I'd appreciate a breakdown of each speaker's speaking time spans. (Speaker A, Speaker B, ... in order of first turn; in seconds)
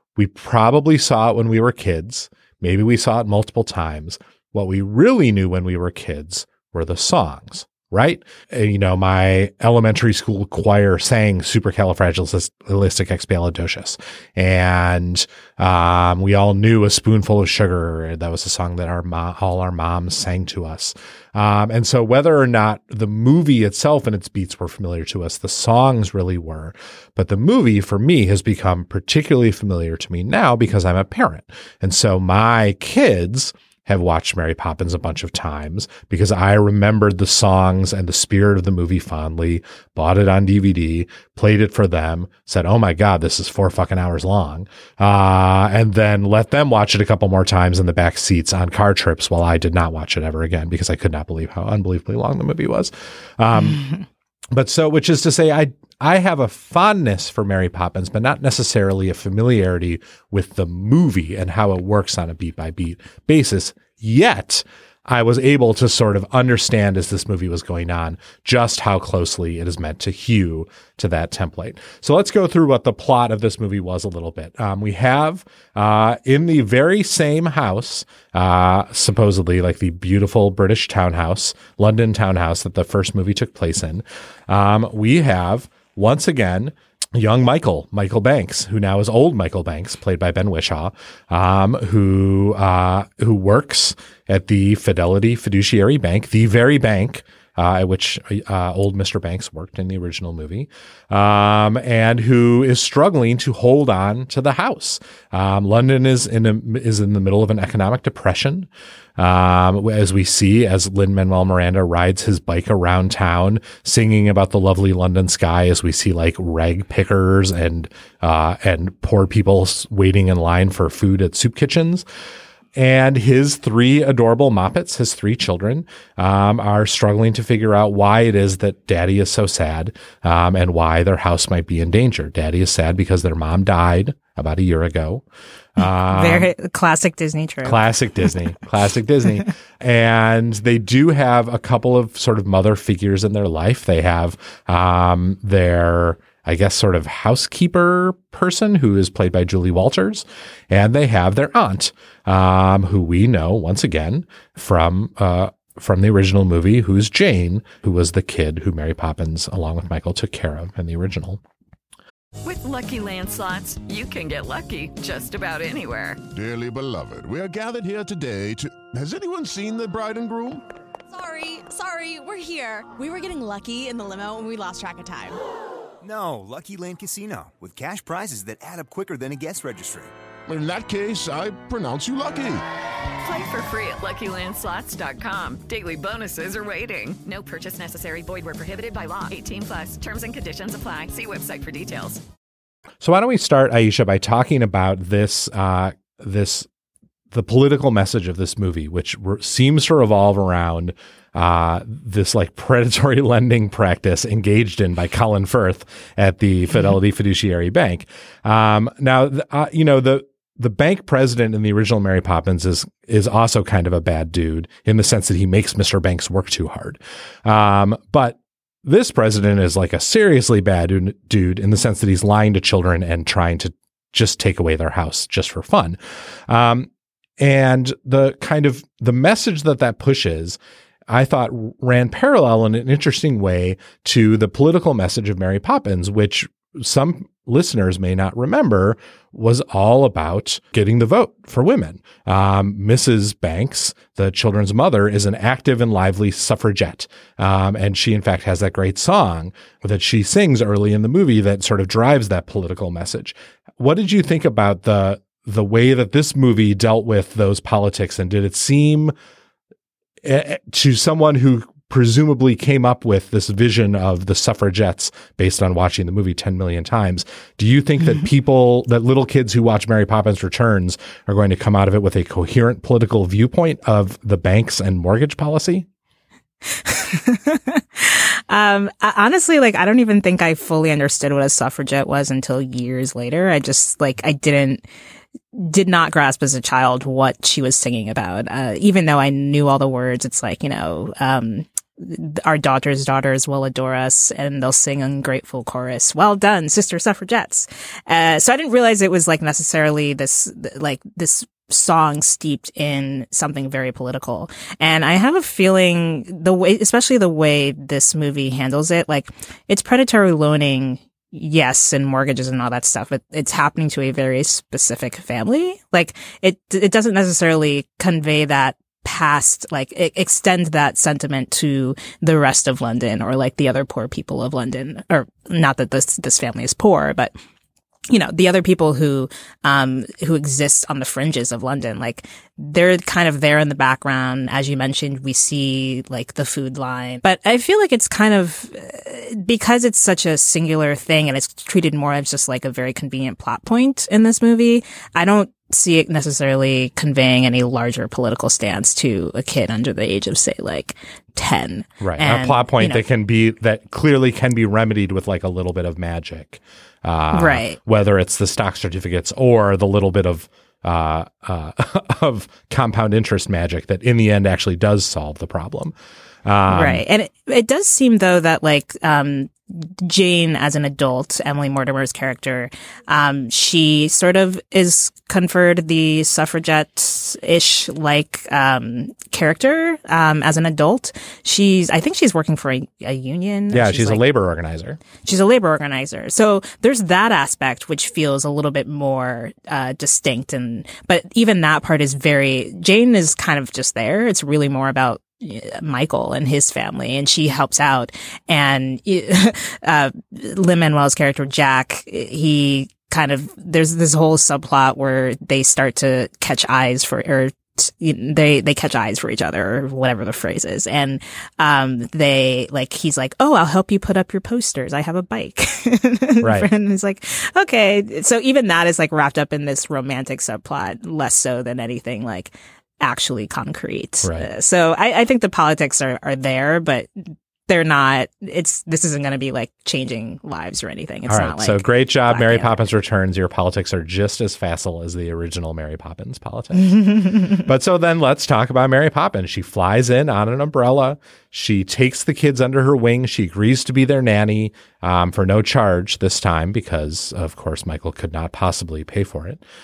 Speaker A: 0.2-53.9, 54.5-122.1, 122.8-135.2, 135.8-136.5, 137.6-161.4, 193.0-196.7, 197.3-259.1, 260.2-275.9, 352.0-367.0, 383.7-385.0, 416.4-416.7, 431.3-449.6
Speaker B: 136.1-137.9, 276.7-284.8, 285.5-327.3, 328.1-353.0, 357.3-357.8, 366.7-384.2, 385.2-432.8, 437.0-437.5
Speaker C: 162.4-166.2, 183.2-192.2
Speaker D: 166.3-170.6, 180.5-182.6
Speaker E: 171.1-175.4
Speaker F: 176.0-180.1